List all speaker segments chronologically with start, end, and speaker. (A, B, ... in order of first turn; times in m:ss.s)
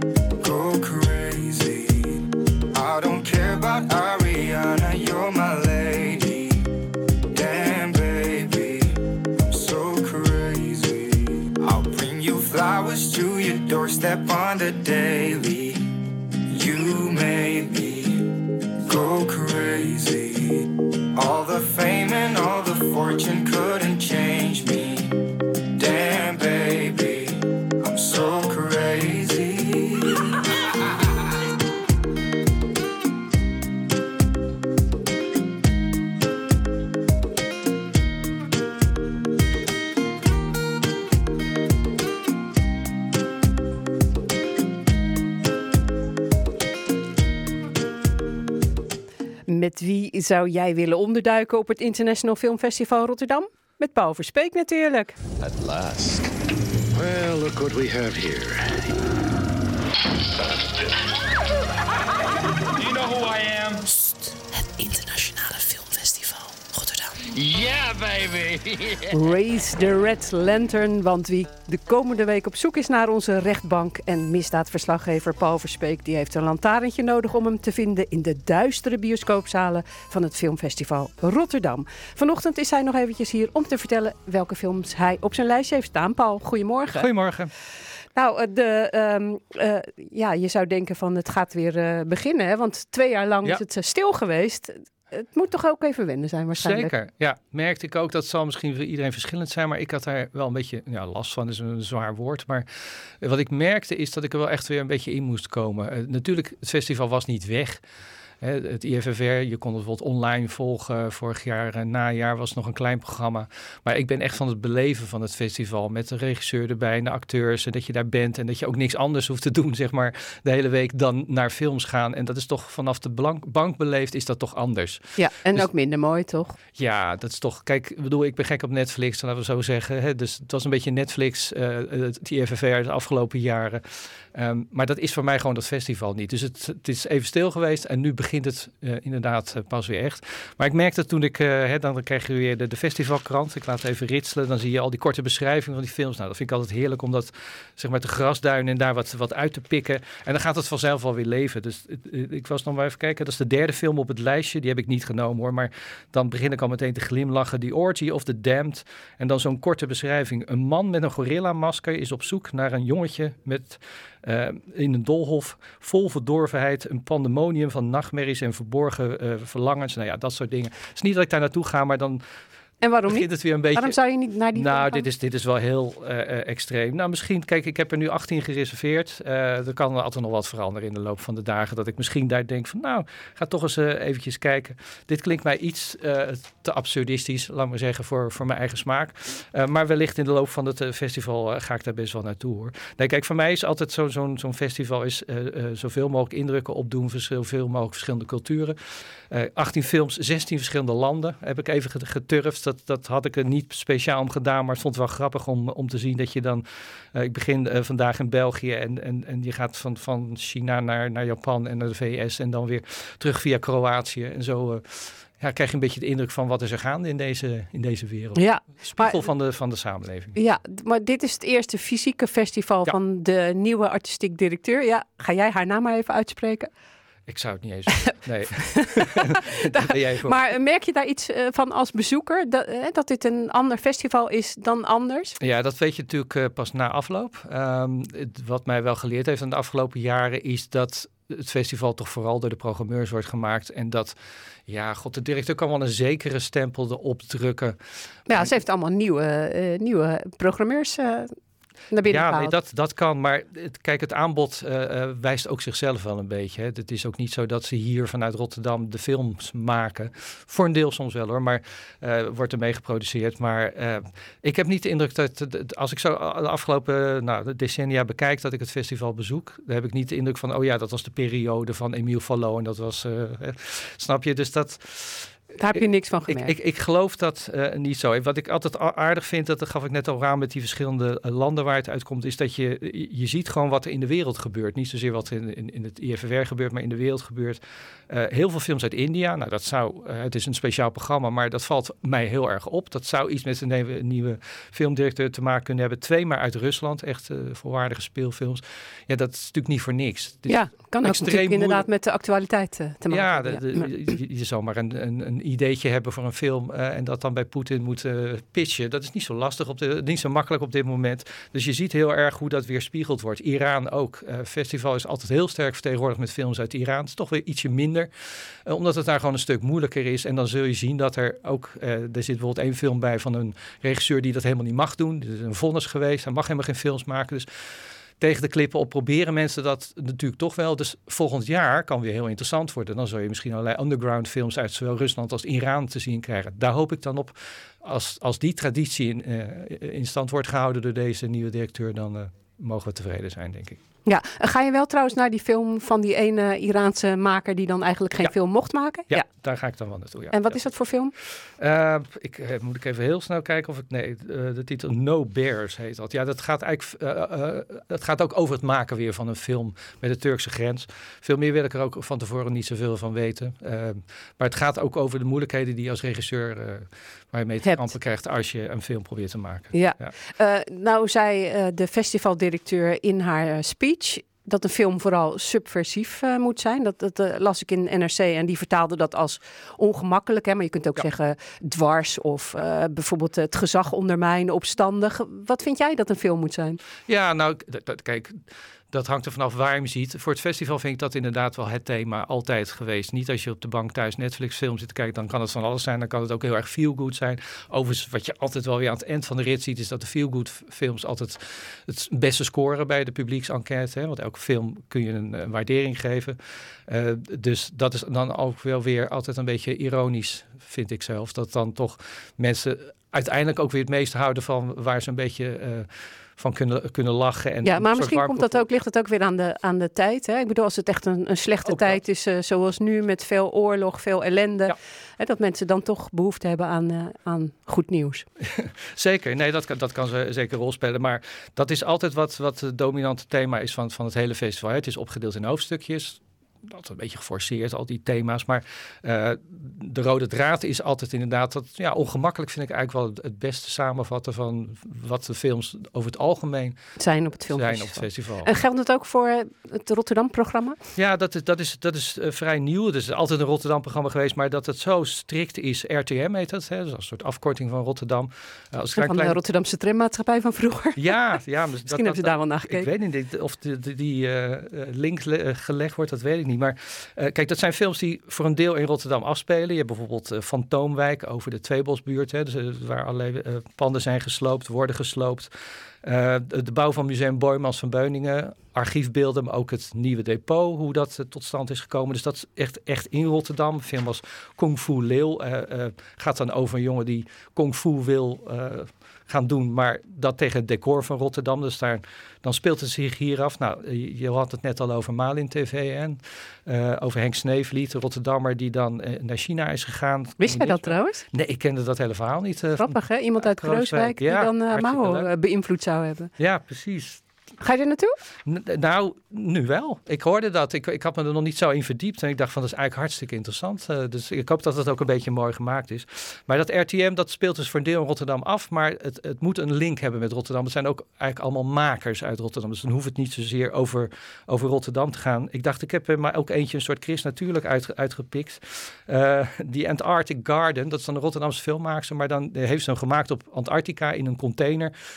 0:00.4-0:06.6 A
0:07.3-0:15.8 A
0:16.5-0:18.3 A
0:18.8-0:25.1 A
0:25.8-0:30.3 A
0:49.5-0:55.2 B
0:55.4-0:56.3 C
0:56.9-0:58.8 C
1:02.8-1:03.8 D
1:04.8-1:06.4 B
1:07.5-1:08.4 D
1:09.1-1:27.1 B
1:26.9-1:27.5 E
1:28.1-1:36.9 B
1:36.5-1:42.6 E
1:43.2-1:47.8 E
1:48.4-2:05.7 E
2:05.2-2:06.6 B
2:06.8-2:13.8 E
2:14.3-2:52.2 E
2:52.8-2:55.1 B
2:53.1-2:54.0 E
2:54.5-3:18.8 E
3:19.3-3:40.4 E
3:38.3-3:39.2 B
3:40.4-3:46.7 B
3:47.3-3:50.4 E
3:48.6-3:55.4 B
3:55.4-4:04.1 E
4:04.7-4:07.8 E
4:08.3-4:11.3 B
4:11.9-4:12.6 B
4:12.1-5:01.8 E
4:35.6-4:36.5 B
5:00.5-5:03.9 B
5:03.1-5:18.1 E
5:18.6-5:27.5 E
5:28.2-5:43.8 E
5:44.0-5:49.2 B
5:49.1-5:50.7 E
5:50.3-5:51.1 B
5:51.4-6:10.1 E
6:07.6-6:07.9 B
6:09.7-6:26.8 B
6:27.1-6:28.4 E
6:28.9-6:46.4 E
6:46.9-6:58.6 E
6:57.6-7:08.2 B
7:01.6-7:02.0 E
7:08.4-7:26.8 E
7:27.0-7:30.8 B
7:27.5-7:28.5 E
7:31.0-7:39.4 E
7:39.0-7:41.2 B
7:41.0-7:55.5 E
7:41.8-7:42.9 B
7:56.0-8:25.3 E
8:20.4-8:21.2 B
8:22.8-8:26.3 B
8:26.4-8:27.2 E
8:27.6-8:28.2 B
8:28.4-8:54.9 E